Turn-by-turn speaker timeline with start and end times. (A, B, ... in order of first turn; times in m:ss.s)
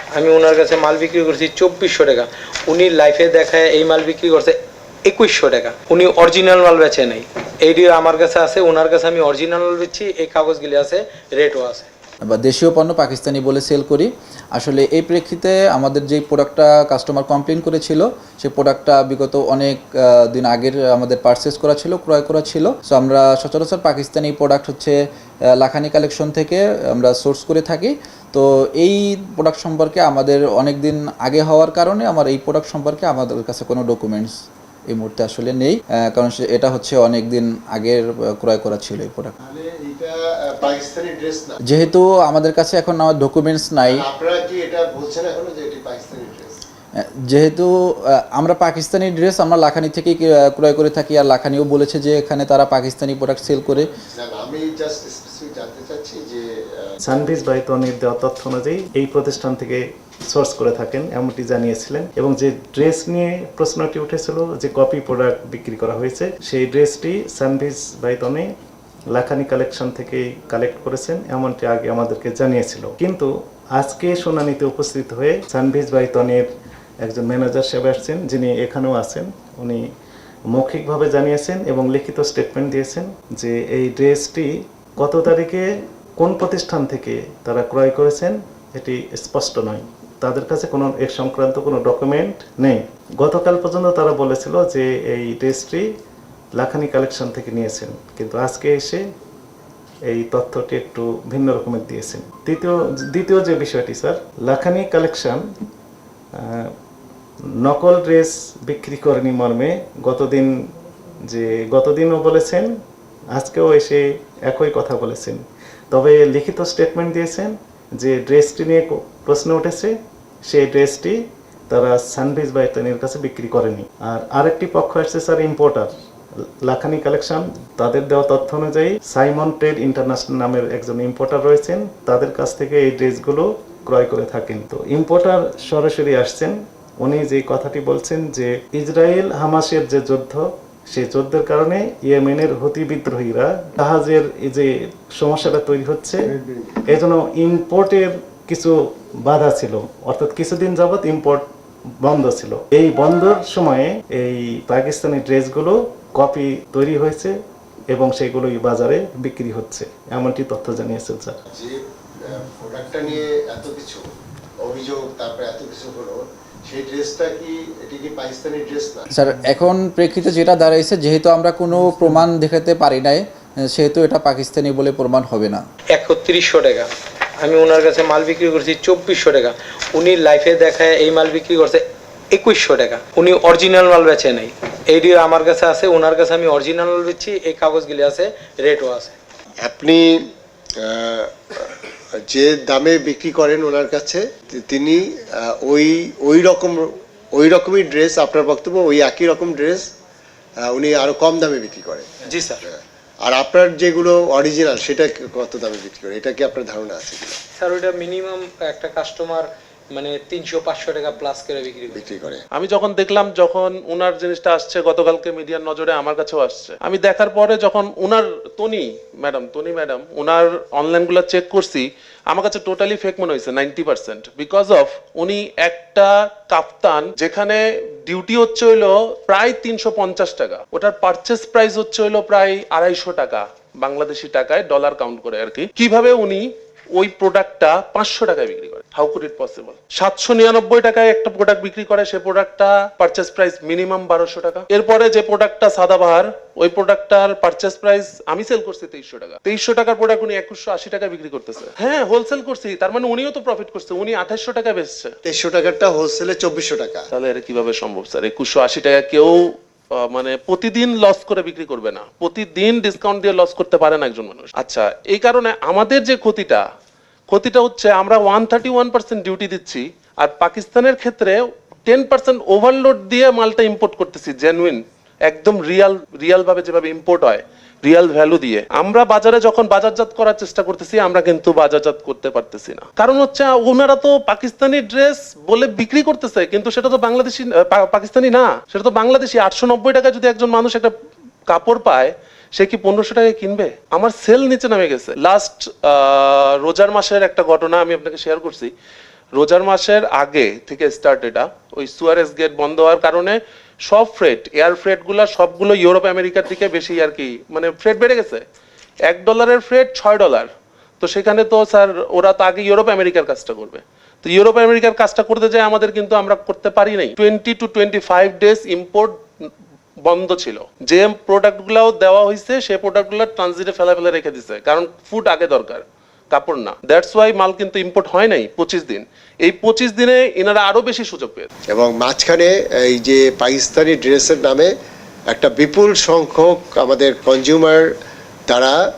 0:00.2-0:11.9 A
0:12.2-0:25.0 B
0:25.6-0:34.4 B
0:34.9-0:39.3 B
0:39.4-0:41.9 C
0:41.7-0:44.1 B
0:43.9-0:46.6 C
0:47.0-0:53.9 B
0:54.1-0:57.0 C
0:57.0-1:08.5 D
1:09.1-1:16.5 D
1:17.0-1:19.8 D
1:20.5-1:24.5 D
1:25.0-1:25.6 D
1:26.2-1:35.9 D
1:36.6-1:39.0 D
1:40.1-1:45.4 D
1:46.4-1:46.7 D
1:47.6-1:50.5 D
1:51.3-1:52.7 D
1:53.4-1:59.9 D
2:00.5-2:01.2 D
2:01.7-2:05.9 D
2:06.6-2:26.3 D
2:26.3-2:26.8 C
2:26.9-2:28.7 D
2:29.2-2:31.4 D
2:32.0-2:37.3 D
2:37.9-2:41.4 D
2:41.5-2:44.0 C
2:44.6-2:49.1 C
2:49.1-2:55.6 B
2:55.9-2:56.9 A
2:57.4-3:09.2 A
3:09.6-3:10.1 C
3:10.8-3:19.9 C
3:20.6-3:22.1 C
3:22.3-3:22.6 A
3:22.6-3:27.4 C
3:27.6-3:32.0 A
3:31.9-3:32.4 C
3:32.5-4:15.2 E
4:15.2-4:17.0 C
4:17.1-4:26.6 E
4:27.3-4:50.9 E
4:51.5-4:58.7 E
4:59.4-5:08.4 E
5:09.1-5:10.5 E
5:11.0-5:19.2 E
5:20.0-5:31.5 E
5:31.7-5:34.7 C
5:35.3-5:37.9 C
5:38.5-5:38.8 C